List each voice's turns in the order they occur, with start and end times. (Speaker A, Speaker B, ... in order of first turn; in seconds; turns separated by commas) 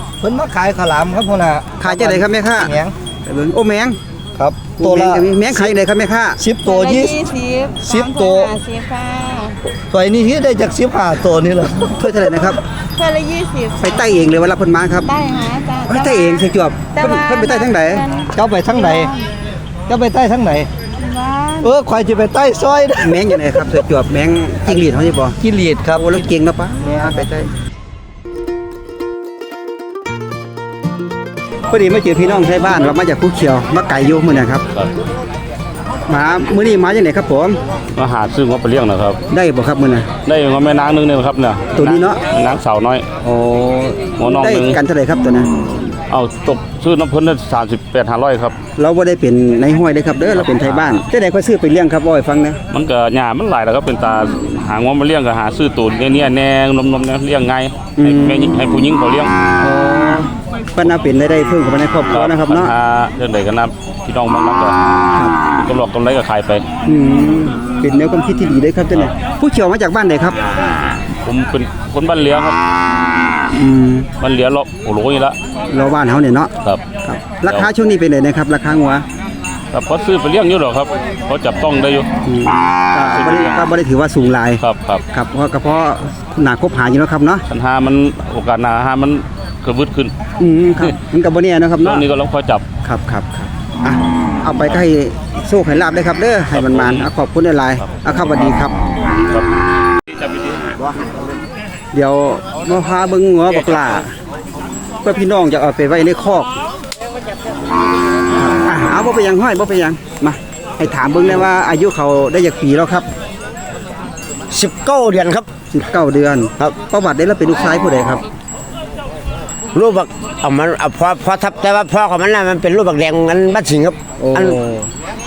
Speaker A: 0.2-2.9, Speaker B: 1.8-2.7, Speaker B: 3.2-4.0, Speaker A: 4.4-5.7, Speaker B: 4.8-6.4, Speaker A: 6.4-7.3, Speaker C: 6.6-9.6, Speaker A: 7.8-8.5, Speaker A: 9.9-11.9, Speaker B: 12.0-12.6, Speaker C: 12.9-13.9, Speaker B: 13.8-15.1, Speaker C: 15.0-19.2, Speaker B: 15.9-18.1, Speaker A: 18.3-19.1, Speaker A: 19.9-20.7, Speaker C: 21.0-21.7, Speaker A: 21.6-23.2, Speaker B: 23.0-25.4, Speaker A: 25.7-26.1, Speaker B: 25.9-27.5, Speaker B: 31.7-34.6, Speaker B: 36.1-37.6, Speaker D: 37.9-39.2, Speaker B: 39.3-40.1, Speaker D: 40.2-43.1, Speaker B: 41.7-42.2, Speaker B: 43.2-45.5, Speaker D: 44.2-44.8, Speaker D: 46.1-48.6, Speaker B: 48.8-52.6, Speaker D: 50.4-51.0, Speaker D: 52.7-59.3, Speaker B: 58.0-58.5, Speaker B: 59.6-62.7, Speaker D: 62.1-64.8, Speaker D: 65.6-66.7, Speaker B: 66.8-70.4, Speaker D: 71.2-72.6, Speaker B: 73.5-74.1, Speaker D: 74.2-75.4, Speaker B: 75.7-76.5, Speaker B: 77.0-79.0, Speaker D: 79.7-82.1, Speaker B: 82.2-84.6, Speaker D: 83.0-83.6, Speaker D: 84.6-85.0, Speaker B: 85.1-87.4, Speaker D: 87.5-90.1, Speaker B: 90.4-92.0, Speaker D: 91.8-92.6, Speaker B: 92.8-98.7, Speaker D: 96.5-97.1, Speaker D: 99.2-99.4, Speaker D: 100.2-100.7, Speaker B: 101.9-104.1, Speaker B: 105.0-106.5, Speaker B: 108.4-113.0, Speaker E: 114.5-115.5, Speaker B: 115.7-118.2, Speaker E: 119.7-124.8, Speaker B: 124.2-124.6